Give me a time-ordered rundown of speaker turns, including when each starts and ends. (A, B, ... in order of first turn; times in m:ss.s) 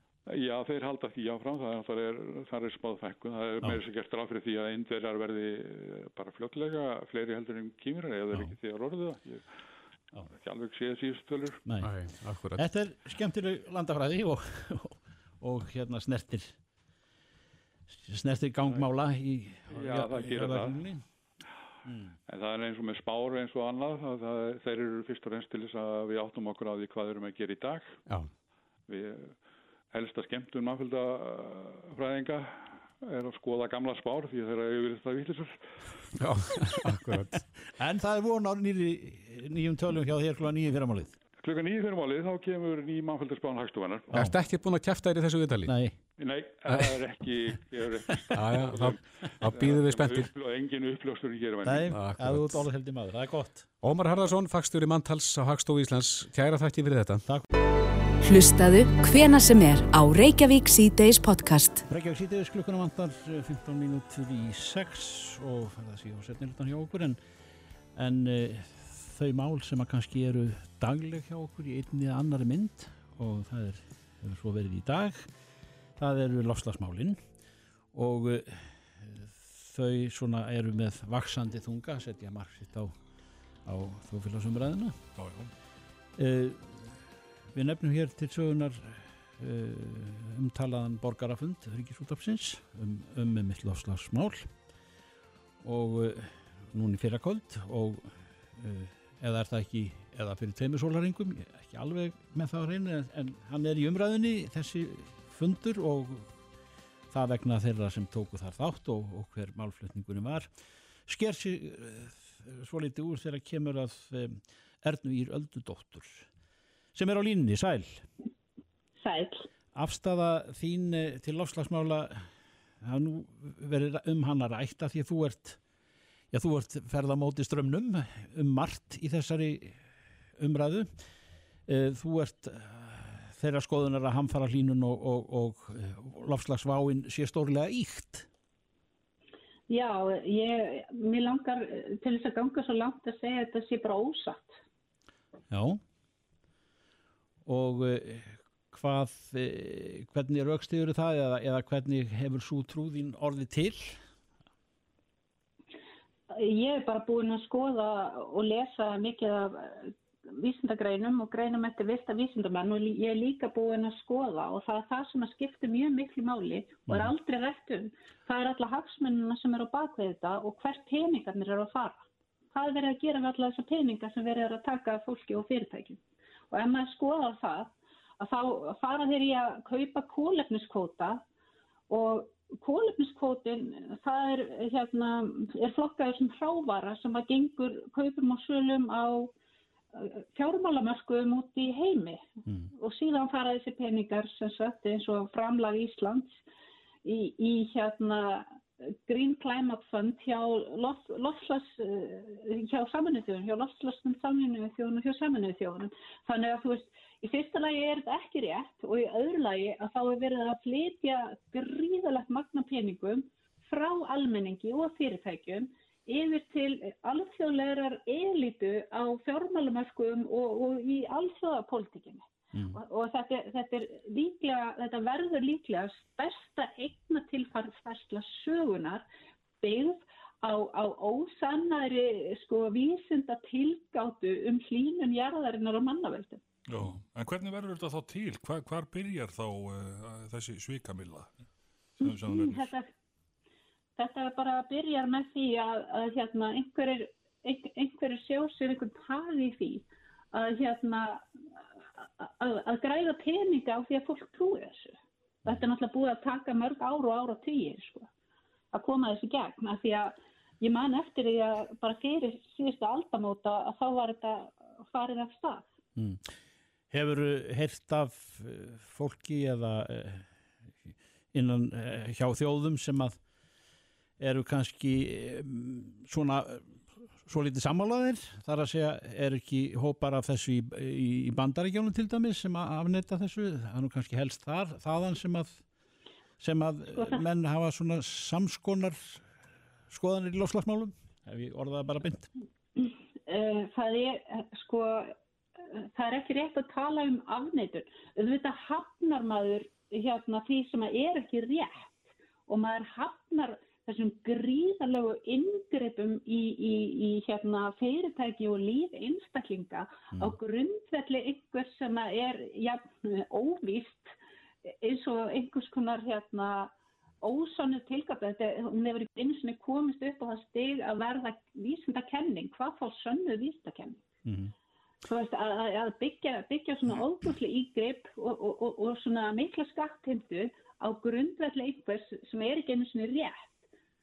0:00.3-0:09.4 A
0:10.1-0:11.6 A
0:11.6-0:11.9 B
0:11.8-0:12.7 C
0:12.5-0:16.5 B
0:17.9-0:21.0 B
0:19.7-0:20.9 A
0:21.9-0:22.1 B
0:22.3-0:28.0 A
0:28.9-0:29.4 A
0:29.9-0:35.8 A
0:36.2-0:37.4 C
0:37.7-0:41.1 B
0:41.4-0:44.3 A
0:44.1-0:45.8 C
0:45.7-0:46.0 B
0:46.2-0:51.9 A
0:48.3-0:50.3 C
0:51.6-0:53.7 B
0:51.8-0:52.6 C
0:53.8-0:57.2 C
0:58.2-1:01.8 D
1:01.9-1:07.2 B
1:07.9-1:15.3 B
1:16.0-1:17.2 B
1:17.9-1:23.0 B
1:23.6-1:25.0 B
1:25.2-1:25.5 E
1:26.2-1:34.5 B
1:35.6-1:46.3 B
1:47.1-1:50.5 B
1:51.1-1:56.3 B
1:56.9-1:58.0 B
1:59.0-1:59.5 F
1:59.7-2:02.3 B
2:02.8-2:05.6 B
2:06.3-2:09.8 B
2:10.4-2:10.9 B
2:11.7-2:18.3 B
2:19.7-2:24.6 F
2:25.5-2:25.8 B
2:27.4-2:34.0 B
2:36.3-2:56.0 F
2:46.9-2:47.1 B
2:56.5-3:01.2 F
3:01.9-3:09.3 F
3:09.9-3:16.4 F
3:17.0-3:49.0 F
3:42.5-3:42.8 B
3:49.6-3:56.4 F
3:56.7-4:01.3 E
4:02.0-4:02.7 E
4:02.0-4:02.9 F
4:04.0-4:11.2 F
4:12.0-4:14.9 F
4:15.4-4:18.1 F
4:18.7-4:25.7 F
4:26.0-4:26.3 B
4:26.9-4:30.3 B
4:30.8-4:33.2 B
4:34.2-4:45.6 B
4:46.4-4:49.2 B
4:46.9-4:47.2 F
4:49.9-4:52.3 B
4:52.8-4:55.2 F
4:55.7-5:24.0 F
5:24.2-5:24.5 B
5:25.0-5:33.6 F